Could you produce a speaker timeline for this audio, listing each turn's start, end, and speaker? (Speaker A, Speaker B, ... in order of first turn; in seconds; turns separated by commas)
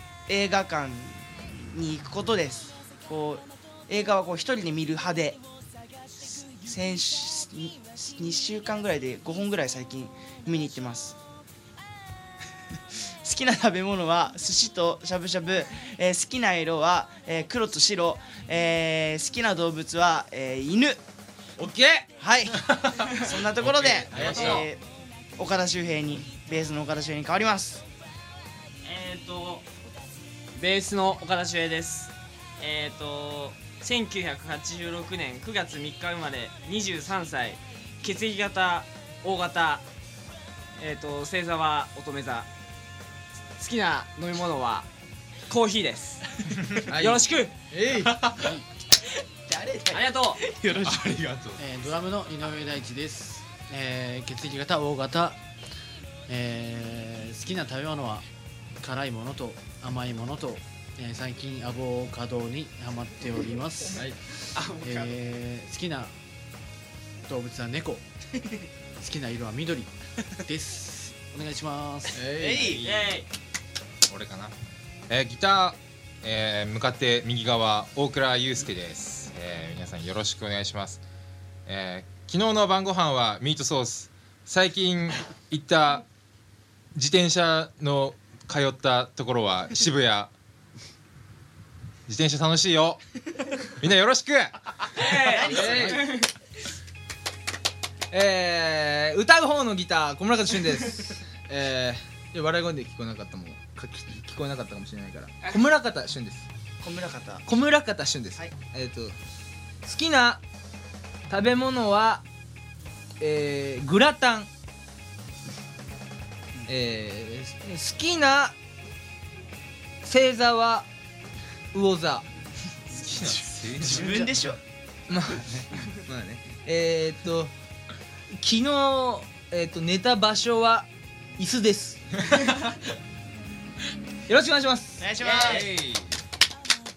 Speaker A: 0.3-5.4, Speaker A: 6.4-11.2, Speaker A: 13.0-21.0, Speaker B: 21.6-22.1, Speaker A: 22.2-24.8, Speaker C: 22.7-24.5, Speaker B: 24.1-24.7, Speaker D: 24.2-24.7, Speaker A: 25.4-27.8, Speaker D: 28.8-29.7, Speaker D: 30.5-39.8, Speaker D: 40.8-42.5, Speaker D: 43.6-44.9, Speaker D: 45.5-46.3, Speaker C: 46.5-46.9, Speaker B: 46.8-48.2, Speaker D: 46.9-47.5, Speaker A: 48.2-48.5, Speaker E: 48.3-48.6, Speaker A: 49.5-51.2, Speaker D: 49.9-50.4, Speaker C: 50.7-51.9, Speaker E: 51.5-55.4, Speaker E: 56.3-58.2, Speaker E: 58.8-64.0, Speaker B: 63.9-64.2, Speaker D: 64.5-65.2, Speaker E: 64.8-66.1, Speaker E: 67.2-68.0, Speaker E: 69.0-72.2, Speaker B: 72.1-72.8, Speaker A: 72.3-72.8, Speaker C: 72.7-73.2, Speaker D: 72.8-73.3, Speaker C: 74.1-74.5, Speaker C: 75.1-81.0, Speaker C: 81.7-86.0, Speaker C: 86.9-90.3, Speaker C: 92.1-93.0, Speaker C: 93.8-95.5, Speaker D: 94.9-96.3, Speaker A: 95.3-96.0, Speaker B: 95.4-96.1, Speaker E: 95.5-96.1, Speaker B: 98.1-106.5, Speaker A: 106.8-107.4, Speaker B: 107.5-109.2, Speaker B: 109.8-110.4, Speaker B: 111.3-112.2, Speaker B: 113.2-114.5, Speaker B: 116.7-118.5, Speaker B: 120.0-120.9, Speaker B: 121.7-122.3, Speaker C: 122.9-124.1, Speaker E: 123.1-124.3, Speaker A: 123.8-124.6, Speaker B: 125.1-127.5, Speaker B: 128.3-130.9, Speaker B: 131.4-132.0, Speaker B: 134.3-135.0, Speaker A: 135.0-135.8, Speaker D: 135.2-135.6, Speaker C: 135.2-136.2